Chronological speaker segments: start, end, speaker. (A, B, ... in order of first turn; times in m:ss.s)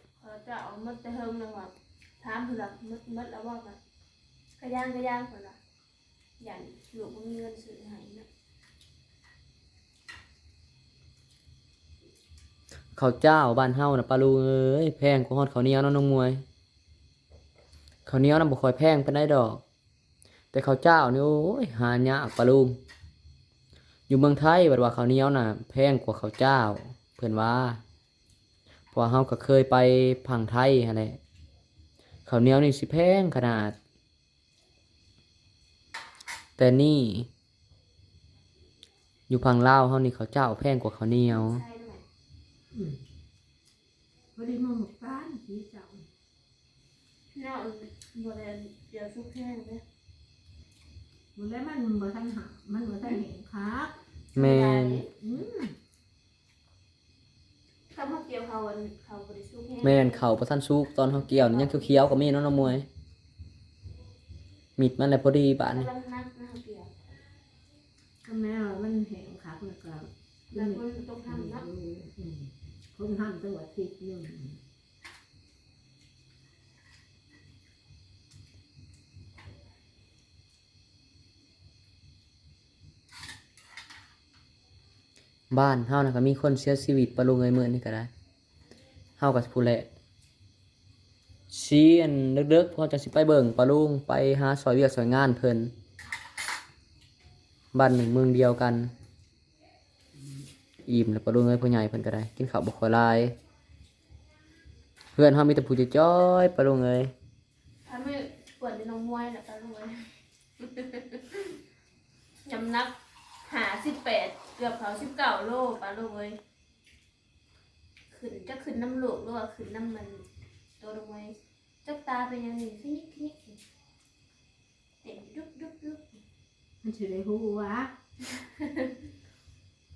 0:00.2-0:03.8 A
0:04.6-0:05.6 A
0:06.4-0:08.3 A
0:13.0-0:16.4 B
0:18.1-0:19.6 B
0:20.5-0:22.8 B
0:24.1-0:27.8 B
0:28.9-0:31.2 B
0:32.3-0:33.8 B
0:36.6-0:37.3 B
0:39.3-0:41.6 B
0:41.3-0:42.0 A
0:42.7-0:43.0 C
0:44.4-0:46.0 C
0:47.3-0:49.8 A
0:51.4-0:54.0 C
0:54.4-0:55.0 B
0:54.4-0:55.1 A
0:55.2-0:55.8 C
0:57.9-1:00.2 A
0:59.8-1:02.9 B
1:01.3-1:02.2 A
1:04.8-1:05.9 B
1:05.7-1:06.9 A
1:08.2-1:14.6 C
1:10.5-1:11.7 A
1:25.5-1:28.1 B
1:29.2-1:29.9 B
1:31.5-1:35.7 B
1:37.7-1:38.9 B
1:40.9-1:43.4 B
1:45.2-1:47.1 B
1:47.9-1:51.6 A
1:52.4-1:52.9 A
1:53.4-1:56.4 A
1:58.1-2:00.2 A
2:00.8-2:03.6 A
2:05.0-2:06.2 A
2:06.8-2:07.9 C
2:08.3-2:09.0 A